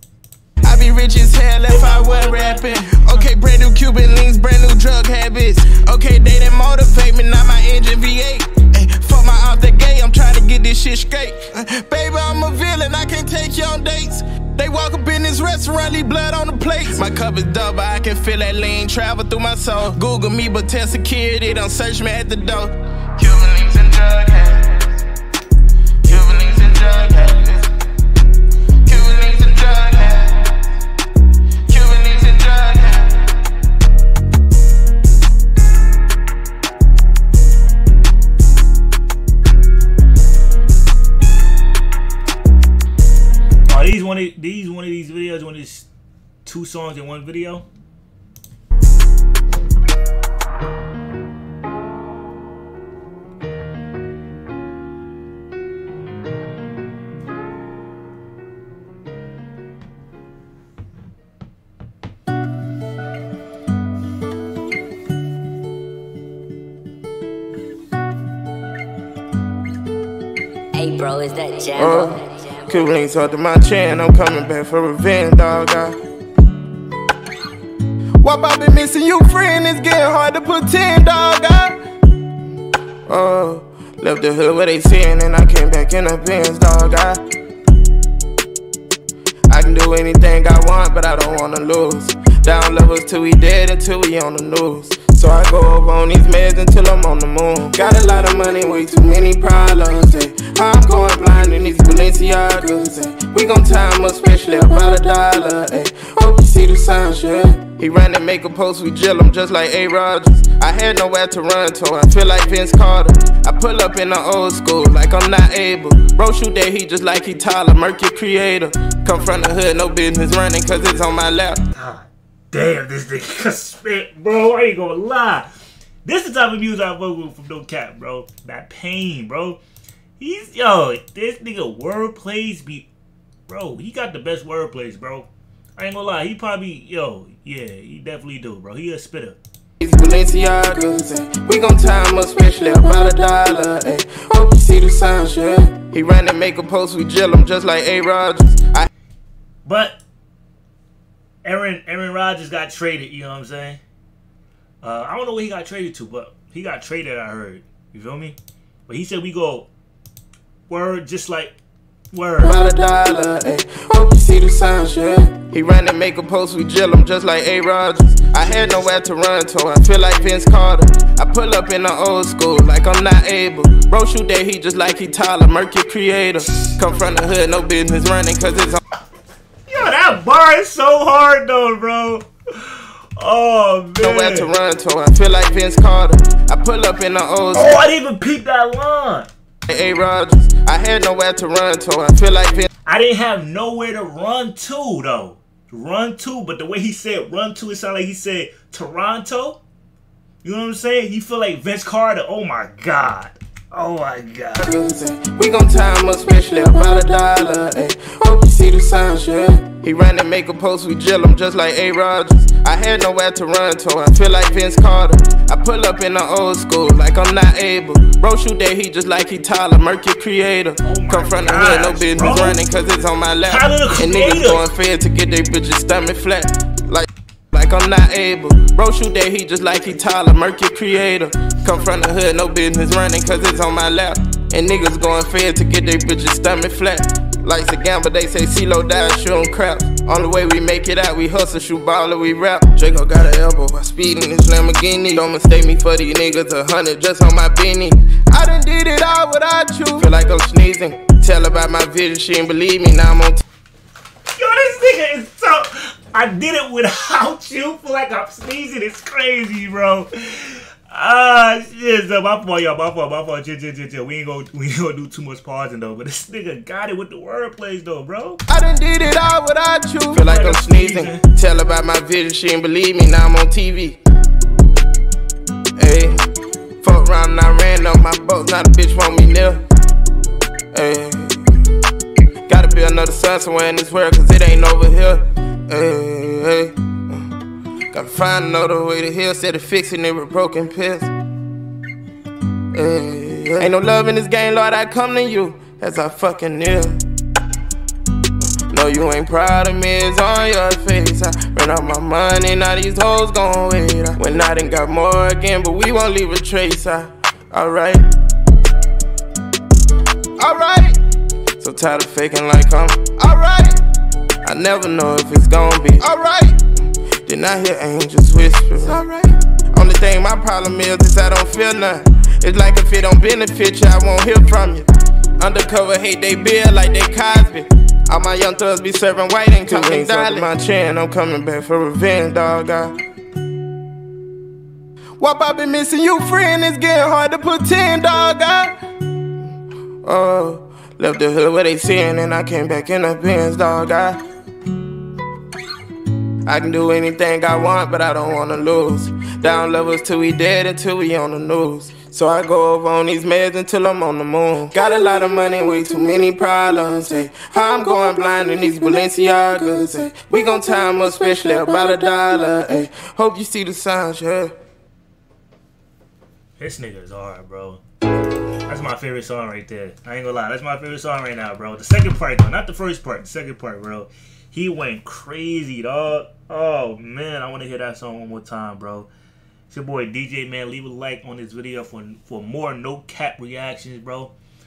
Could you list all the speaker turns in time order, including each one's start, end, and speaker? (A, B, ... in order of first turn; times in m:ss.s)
0:00.6-0:24.9 A
0:01.7-0:03.3 B
0:26.0-0:27.7 A
0:28.8-0:30.6 A
0:31.7-0:33.4 A
0:43.7-0:45.9 B
0:46.4-0:47.6 B
1:10.7-1:12.8 C
1:11.7-1:16.0 A
1:18.2-1:21.8 A
1:23.1-1:27.2 A
1:29.5-2:01.6 A
2:01.7-2:05.5 B
2:06.0-2:09.6 B
2:10.2-2:12.9 B
2:13.5-2:19.4 B
2:19.8-2:28.9 A
2:29.6-2:30.0 B
2:31.4-2:33.8 B
2:34.8-2:38.4 B
2:38.9-2:39.7 B
2:40.7-2:41.6 B
2:42.1-2:42.6 B
2:42.4-2:58.8 A
2:48.5-2:48.8 B
2:59.7-3:04.5 B
3:04.0-3:07.8 A
3:07.5-3:09.3 B
3:09.7-3:12.7 A
3:12.8-3:19.6 B
3:20.4-3:24.7 B
3:24.6-4:13.4 A
3:40.8-3:42.6 B
3:43.5-3:44.6 B
4:14.3-4:28.4 B
4:28.5-4:34.0 A
4:30.1-4:31.2 B
4:35.8-4:36.2 A
4:36.8-4:39.6 A
4:40.7-4:41.6 A
4:42.5-4:47.3 A
4:47.9-4:51.1 A
4:52.7-4:57.0 A
4:58.7-5:08.1 A
5:10.4-5:11.0 A
5:11.6-5:13.8 A
5:14.4-5:16.6 A
5:17.2-5:24.9 A
5:25.4-5:32.9 A
5:35.2-5:38.7 A
5:40.0-5:44.2 A
5:46.4-6:04.5 A
6:06.6-6:07.8 B
6:08.7-6:19.1 B
6:19.7-6:24.3 B